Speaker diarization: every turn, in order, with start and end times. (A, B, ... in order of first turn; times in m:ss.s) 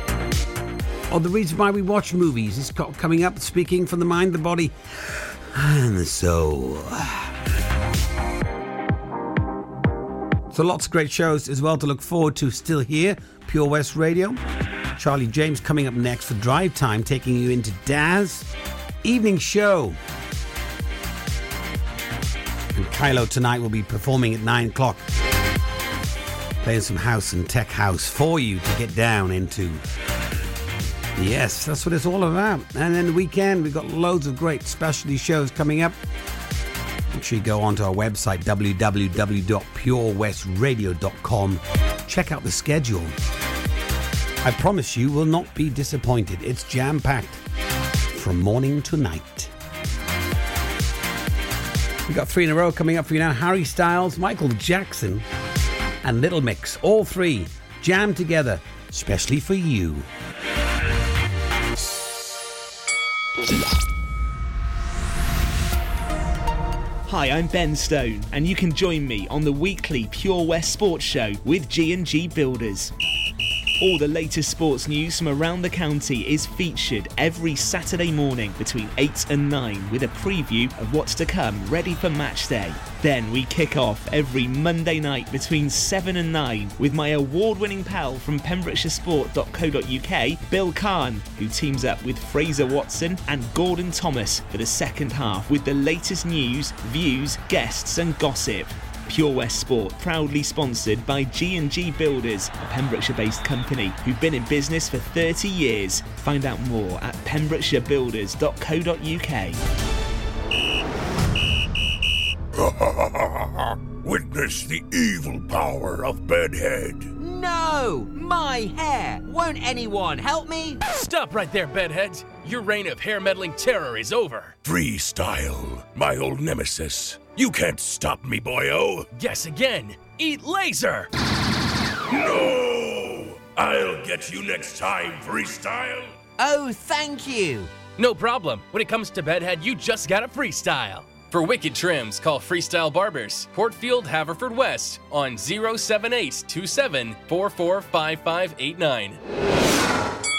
0:01.1-0:07.3 A
0:10.5-0:14.4 A
0:15.0-0:18.5 A
0:19.0-0:20.0 A
0:22.7-0:25.0 A
0:26.6-0:29.8 A
0:31.2-0:36.0 A
0:37.1-0:43.1 A
0:44.4-0:47.4 A
0:48.1-0:49.5 A
0:52.1-0:55.2 A
0:56.0-1:00.1 A
1:07.1-1:12.9 B
1:13.8-1:49.6 B
1:52.6-1:57.1 C
1:57.2-2:00.8 D
2:00.9-2:04.6 E
2:04.6-2:09.1 C
2:09.1-2:11.1 E
2:12.1-2:16.2 C
2:16.4-2:17.7 D
2:18.0-2:29.2 E